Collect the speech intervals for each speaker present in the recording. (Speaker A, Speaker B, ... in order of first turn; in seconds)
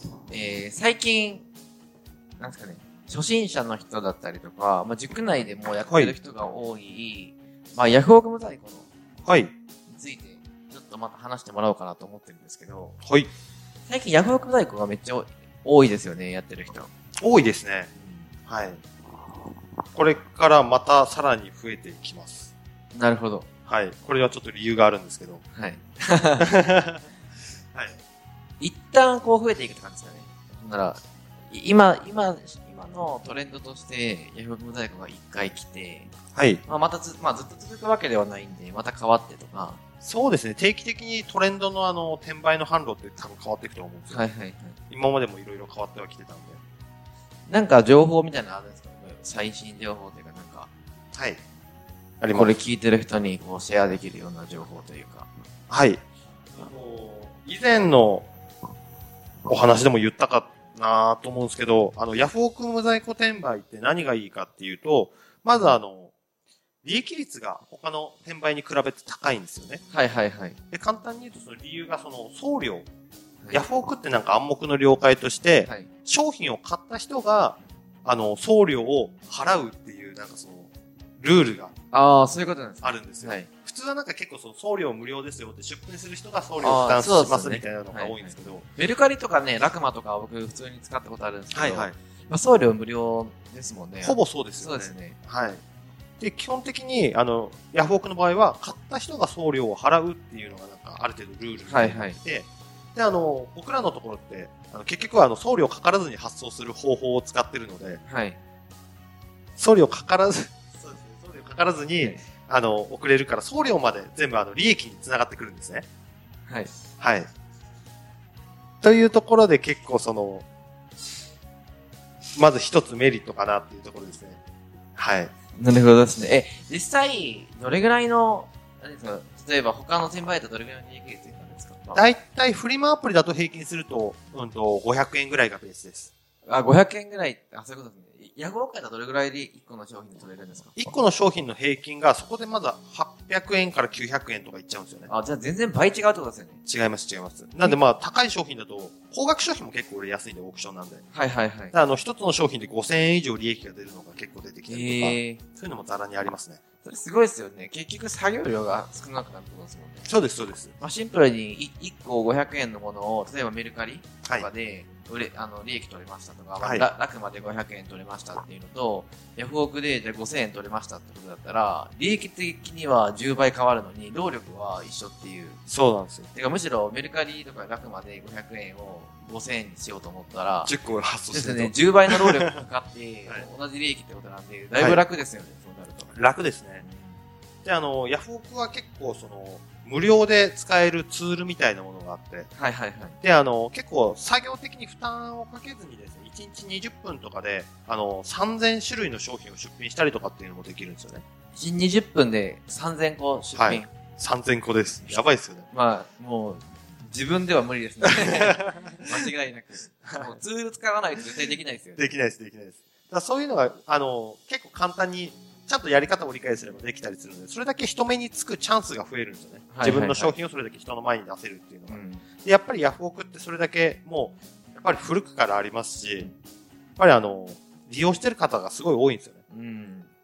Speaker A: 0.3-1.5, 2.4-8.9, 9.9-13.0, 13.9-16.9, 18.0-18.3, 22.9-23.5, 25.6-26.5, 28.6-36.1, 36.7-39.8, 44.1-44.8, 47.5-50.7, 52.3-55.3, 69.9-70.6, 81.9-83.5, 86.6-95.2, 101.7-102.2, 108.1-108.4, 112.0-112.2, 125.6-132.1, 136.5-140.8, 145.1-146.6, 151.1-151.8, 154.7-155.4, 156.8-160.1, 160.8-175.6, 176.3-180.7, 181.3-186.1, 186.8-187.2, 192.6-193.2, 201.5-203.9, 205.7-212.1, 219.7-220.3, 221.9-222.2, 229.5-230.1
Speaker B: 5.9-6.2, 9.2-9.5, 13.0-13.3, 17.2-17.9, 18.5-18.8, 19.9-22.5, 23.7-25.4, 26.4-27.1, 36.3-36.6, 40.0-44.2, 44.9-46.6, 51.1-51.4, 52.2-52.6, 55.7-56.0, 56.6-58.3, 59.5-66.1, 66.8-69.8, 70.7-72.9, 73.5-81.7, 82.8-88.7, 91.5-92.0, 94.0-95.6, 96.2-108.0, 109.6-115.9, 117.0-117.3, 118.8-120.5, 122.4-124.4, 125.0-125.3, 131.9-136.1, 140.8-145.1, 146.7-151.0, 151.7-156.6, 160.1-160.8, 164.2-164.5, 166.6-166.9, 175.7-176.3, 180.7-182.6, 184.8-185.0, 186.1-186.8, 187.6-192.5, 193.2-201.2, 203.5-205.7, 208.1-209.3, 210.1-210.3, 212.0-226.3, 227.0-229.4